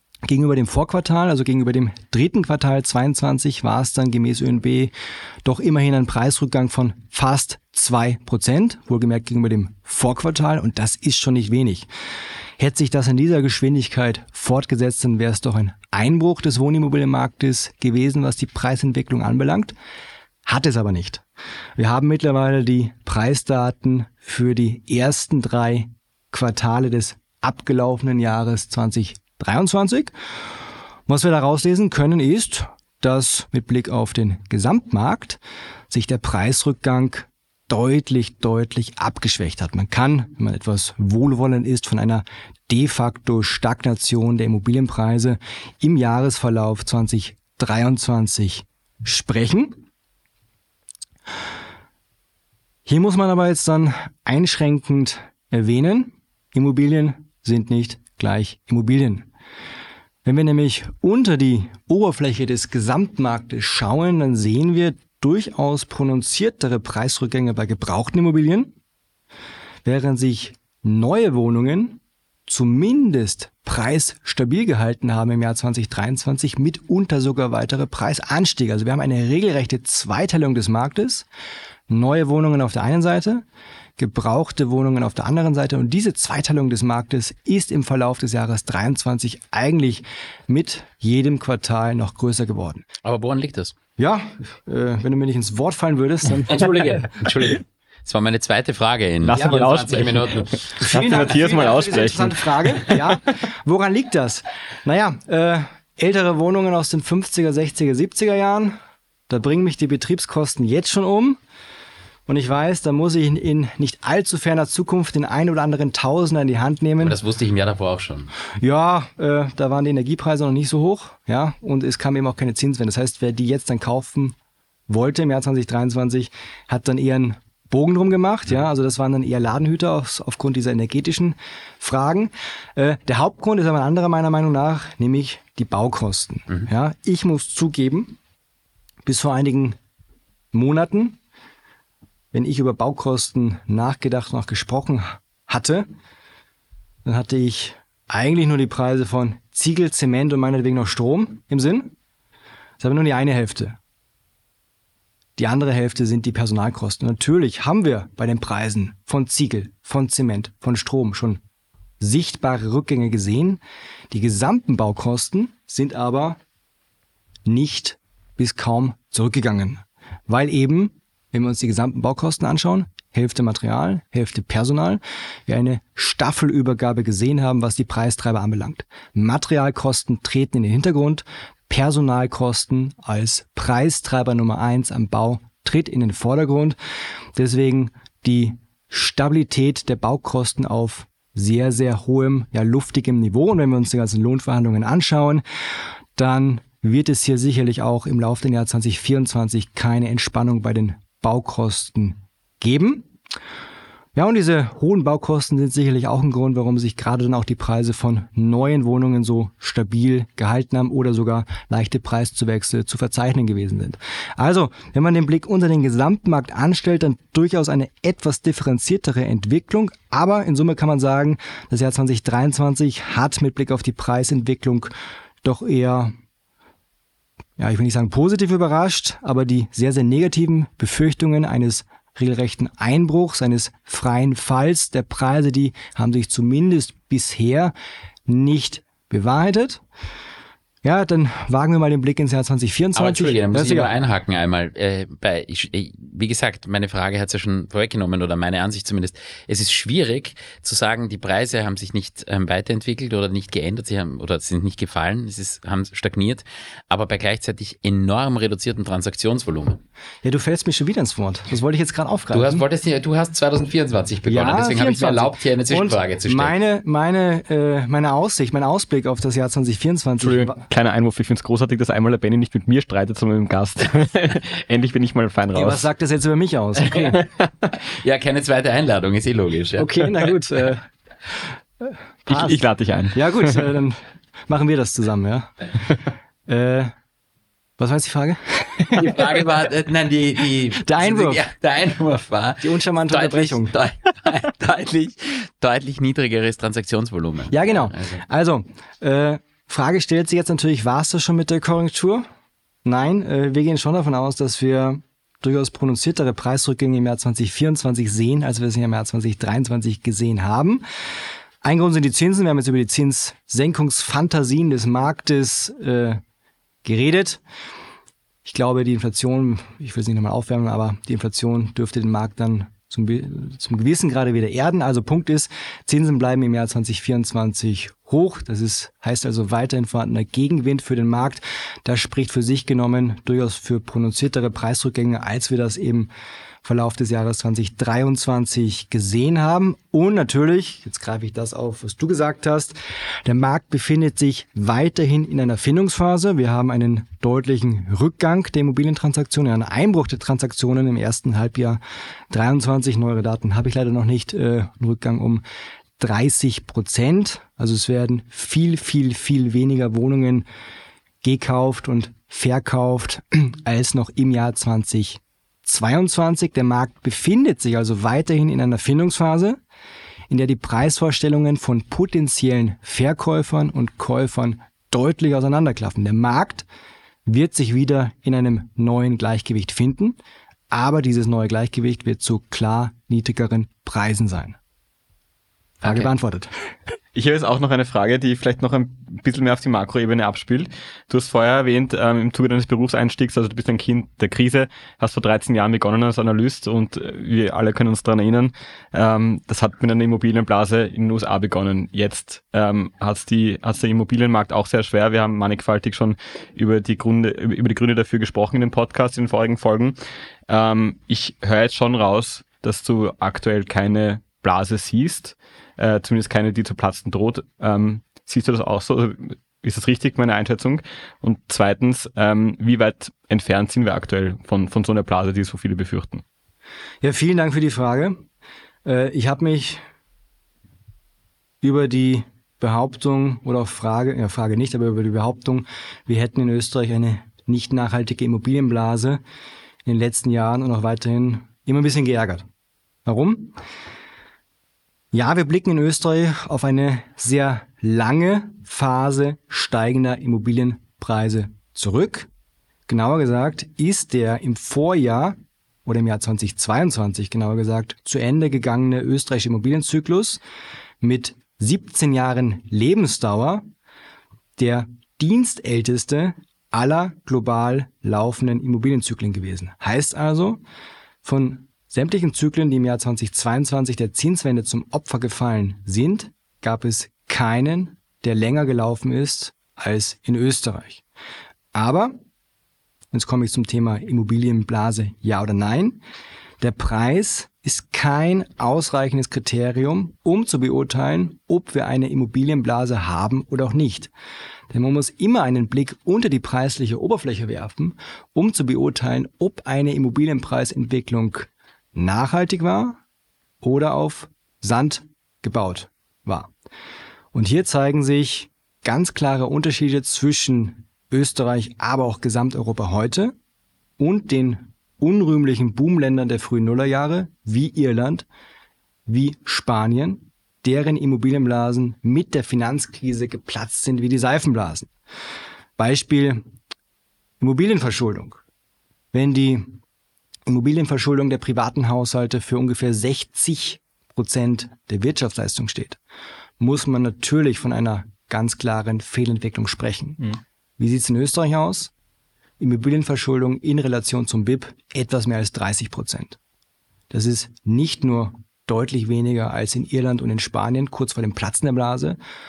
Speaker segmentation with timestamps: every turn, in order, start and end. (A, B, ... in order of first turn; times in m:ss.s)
0:00.3-0:04.9 A
0:05.4-0:11.9 A
0:12.6-0:19.7 A
0:20.5-0:21.2 A
0:21.8-0:30.1 A
0:31.1-0:49.8 A
0:52.8-0:59.3 A
1:00.2-1:08.7 A
1:09.8-1:21.3 A
1:21.9-1:23.4 A
1:24.0-1:32.8 A
1:33.0-1:33.7 B
1:34.0-1:37.0 A
1:36.5-1:41.2 B
1:39.2-1:43.2 C
1:39.3-1:39.6 A
1:40.8-1:48.8 A
1:49.3-1:51.4 A
1:52.3-1:57.2 A
1:57.0-1:58.3 B
1:58.6-2:04.3 A
2:04.9-2:18.2 A
2:19.0-2:19.8 A
2:20.5-2:21.2 A
2:22.3-2:25.9 A
2:27.0-2:32.0 A
2:32.8-2:33.8 A
2:35.4-2:41.4 A
2:42.0-2:43.6 A
2:44.1-2:46.4 A
2:47.4-3:06.8 A
3:07.4-3:15.4 A
3:16.2-3:23.1 A
3:24.1-3:46.1 A
3:47.6-3:57.7 A
3:58.3-3:59.8 A
4:00.8-4:03.9 A
4:03.0-4:19.8 B
4:20.2-4:22.6 A
4:22.3-4:26.5 B
4:24.2-4:30.6 A
4:30.2-4:35.9 C
4:35.5-4:37.2 A
4:36.8-4:37.2 B
4:37.7-4:40.4 B
4:39.8-4:40.8 A
4:41.8-4:42.5 A
4:42.3-4:43.6 C
4:43.1-4:45.5 A
4:46.5-4:46.9 A
4:47.8-4:49.2 A
4:48.9-4:58.2 B
4:50.8-4:51.4 A
4:52.6-4:53.7 A
4:57.5-5:02.2 A
5:02.8-5:10.8 A
5:11.6-5:16.2 A
5:16.8-5:17.4 A
5:18.4-5:36.1 A
5:36.6-5:55.4 A
5:56.0-6:00.4 A
6:01.2-6:09.6 A
6:10.3-6:16.6 A
6:17.2-6:20.2 A
6:20.7-6:24.6 A
6:25.8-6:26.5 A
6:27.1-6:50.0 C
6:50.5-7:06.2 C
7:07.0-7:08.2 A
7:08.8-7:09.8 A
7:11.6-7:19.2 A
7:19.8-7:22.4 A
7:23.0-7:23.6 A
7:25.1-7:32.3 A
7:32.9-7:40.4 A
7:41.0-7:43.6 A
7:44.6-7:50.6 A
7:51.2-8:01.0 A
8:01.7-8:02.1 A
8:03.1-8:06.0 A
8:06.6-8:14.1 A
8:14.7-8:23.0 A
8:23.6-8:26.5 A
8:27.3-8:33.3 A
8:34.0-8:38.2 A
8:39.1-8:44.9 A
8:45.8-8:46.4 A
8:47.4-8:48.4 A
8:49.1-8:49.8 A
8:50.5-8:56.0 A
8:56.6-9:01.9 A
9:02.6-9:06.4 A
9:07.1-9:12.2 A